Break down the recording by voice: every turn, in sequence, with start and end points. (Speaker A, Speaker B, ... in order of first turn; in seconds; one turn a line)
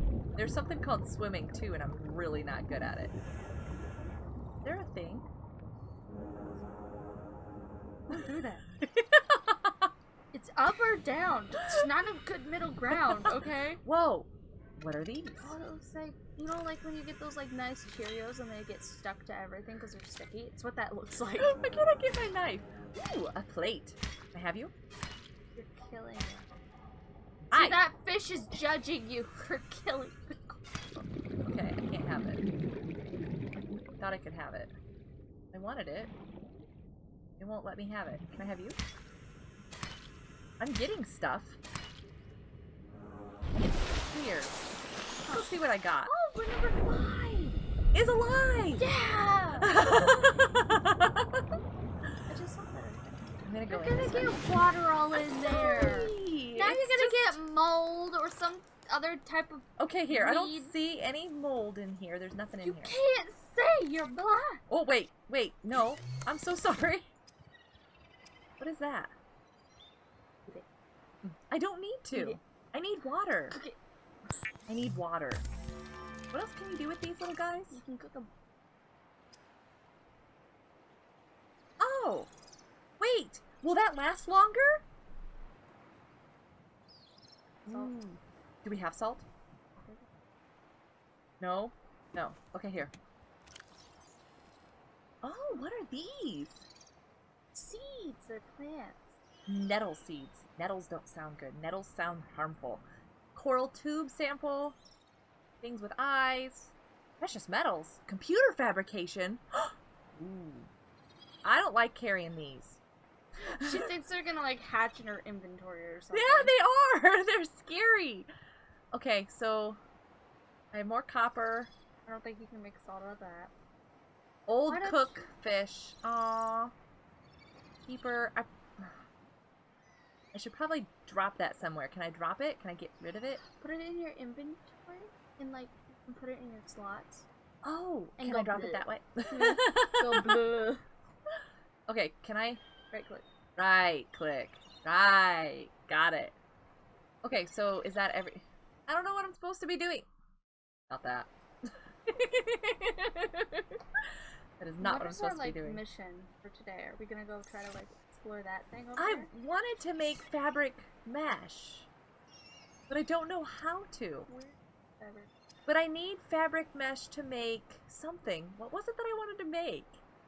Speaker A: 0.3-3.1
Speaker A: 4.6-5.3
Speaker B: 8.1-8.7
Speaker A: 8.1-9.9
Speaker B: 10.3-13.8
Speaker A: 12.9-15.6
Speaker B: 15.4-21.6
Speaker A: 21.4-24.7
Speaker B: 25.5-26.5
Speaker A: 27.5-27.8
Speaker B: 27.5-31.4
Speaker A: 31.4-32.5
Speaker A: 34.0-34.7
Speaker A: 35.5-36.1
Speaker A: 37.4-38.8
Speaker A: 40.6-41.6
Speaker A: 44.1-44.6
Speaker B: 45.2-45.5
Speaker A: 45.3-46.1
Speaker B: 46.0-47.6
Speaker A: 47.9-48.8
Speaker B: 48.8-49.9
Speaker A: 49.6-51.4
Speaker B: 52.2-60.7
Speaker A: 53.4-54.4
Speaker A: 55.1-57.4
Speaker A: 59.8-63.0
Speaker B: 62.6-64.6
Speaker A: 64.7-67.1
Speaker A: 68.6-69.1
Speaker A: 71.2-73.6
Speaker B: 72.1-72.4
Speaker A: 74.7-75.5
Speaker A: 76.3-77.8
Speaker B: 77.7-78.3
Speaker A: 81.8-82.3
Speaker A: 83.0-84.8
Speaker B: 87.6-88.2
Speaker A: 87.7-88.1
Speaker A: 88.6-89.3
Speaker B: 89.8-90.0
Speaker A: 91.4-92.9
Speaker A: 95.2-96.7
Speaker B: 97.5-99.1
Speaker A: 99.5-104.8
Speaker A: 105.6-110.7
Speaker A: 111.4-112.8
Speaker A: 113.5-113.9
Speaker B: 113.5-116.5
Speaker A: 116.1-118.3
Speaker A: 118.9-119.8
Speaker A: 120.7-121.7
Speaker B: 122.0-123.5
Speaker A: 124.5-126.7
Speaker B: 124.7-125.2
Speaker A: 127.8-128.9
Speaker A: 130.3-133.4
Speaker B: 133.6-137.3
Speaker A: 137.6-140.4
Speaker B: 138.2-140.8
Speaker A: 141.9-142.6
Speaker B: 142.9-143.2
Speaker A: 143.6-146.4
Speaker A: 147.2-150.1
Speaker A: 150.9-153.8
Speaker A: 154.6-155.8
Speaker B: 154.8-159.3
Speaker A: 159.0-161.9
Speaker A: 162.9-164.3
Speaker B: 164.3-165.3
Speaker A: 165.7-170.0